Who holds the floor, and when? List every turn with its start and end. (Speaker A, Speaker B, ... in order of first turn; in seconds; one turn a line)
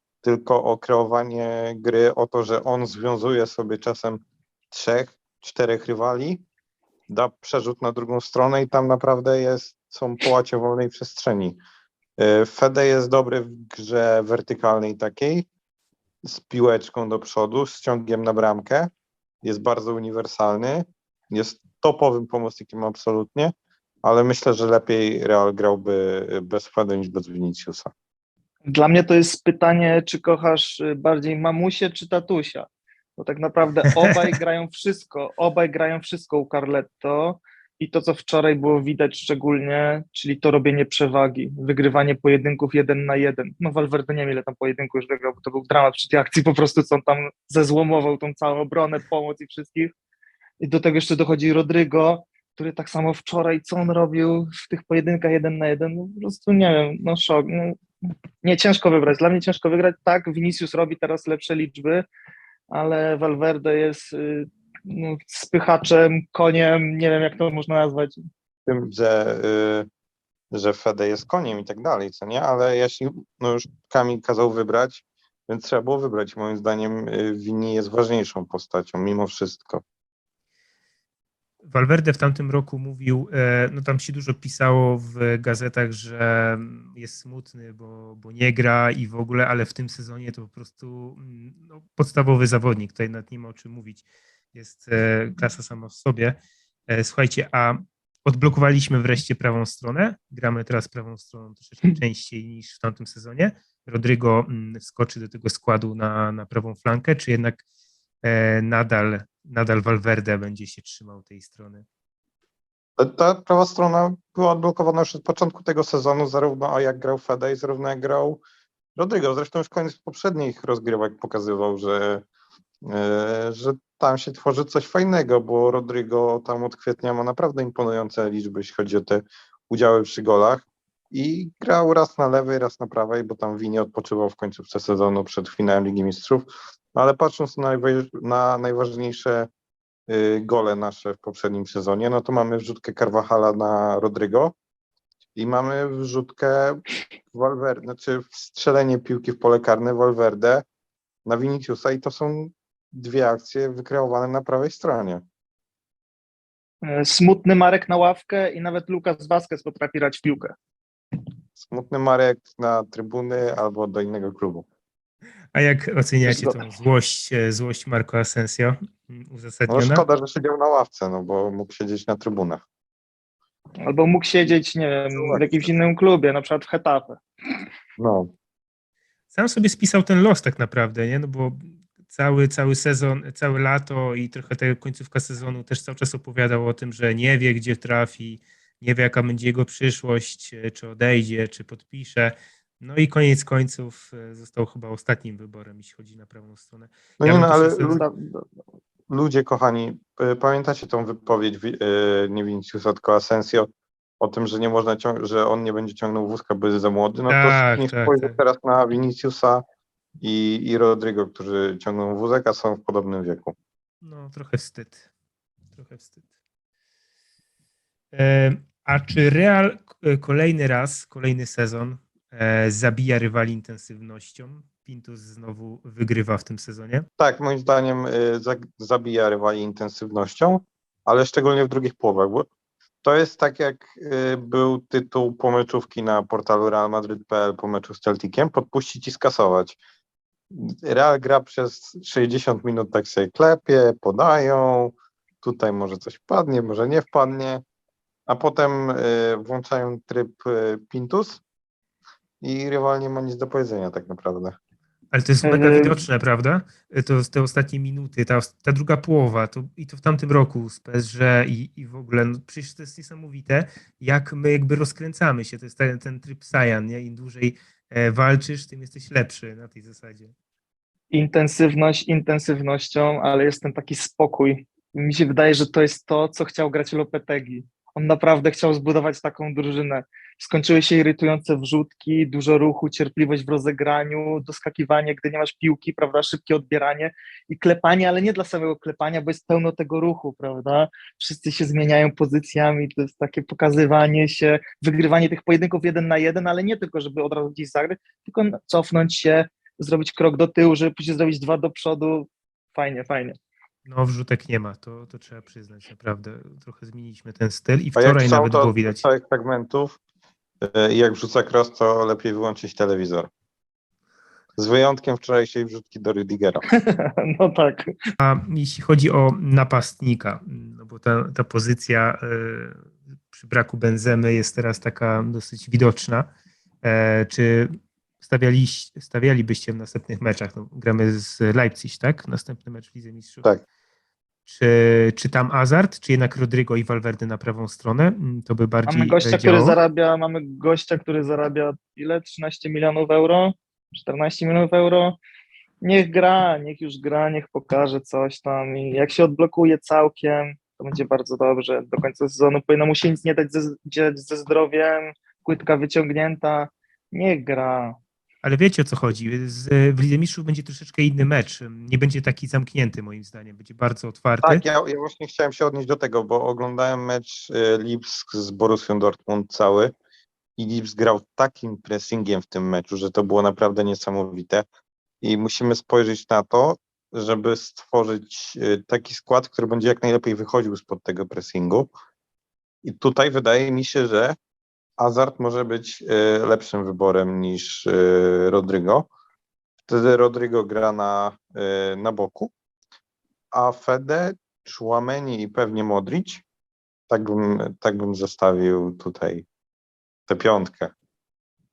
Speaker A: 0.2-6.4
Speaker A: 7.1-11.6
Speaker A: 12.2-15.5
Speaker A: 16.2-18.9
Speaker A: 19.4-23.5
Speaker A: 24.0-27.9
Speaker B: 28.7-49.9
Speaker B: 50.6-57.8
Speaker B: 58.4-62.1
Speaker B: 62.7-68.2
Speaker A: 68.7-69.9
Speaker A: 70.5-79.8
Speaker C: 81.7-96.4
Speaker C: 96.9-107.6
Speaker C: 108.2-111.8
Speaker A: 113.0-118.4
Speaker A: 119.0-122.2
Speaker A: 122.9-139.5
Speaker A: 140.1-144.6
Speaker A: 145.4-146.8
Speaker A: 147.3-150.6
Speaker A: 151.3-155.2
Speaker B: 156.8-160.5
Speaker A: 161.6-164.7
Speaker C: 165.5-170.1
Speaker B: 166.3-166.7
Speaker A: 169.7-172.6
Speaker B: 173.8-177.2
Speaker A: 175.1-175.7
Speaker A: 178.0-178.3
Speaker C: 179.3-198.0
Speaker A: 197.2-198.1
Speaker A: 199.1-209.6
Speaker C: 207.3-208.4
Speaker A: 210.2-213.6
Speaker C: 214.0-215.1
Speaker C: 215.7-216.2
Speaker C: 218.1-227.1
Speaker A: 227.2-232.5
Speaker A: 233.0-239.8
Speaker A: 240.5-247.6
Speaker A: 248.3-251.4
Speaker A: 252.4-254.6
Speaker C: 255.1-270.3
Speaker B: 255.4-256.0
Speaker B: 271.1-303.4
Speaker C: 303.9-309.1
Speaker A: 308.0-310.0
Speaker A: 310.6-313.3
Speaker A: 314.6-316.6
Speaker B: 316.8-317.9
Speaker C: 318.2-326.3
Speaker C: 326.8-333.5
Speaker C: 334.5-339.8
Speaker B: 338.9-345.2
Speaker B: 345.8-358.0
Speaker C: 358.4-364.6
Speaker A: 364.4-369.9
Speaker A: 370.6-374.6
Speaker A: 375.2-381.9
Speaker A: 382.8-384.4
Speaker A: 385.0-389.1
Speaker A: 389.9-392.5
Speaker A: 393.5-396.4
Speaker A: 397.1-399.5
Speaker A: 400.3-400.9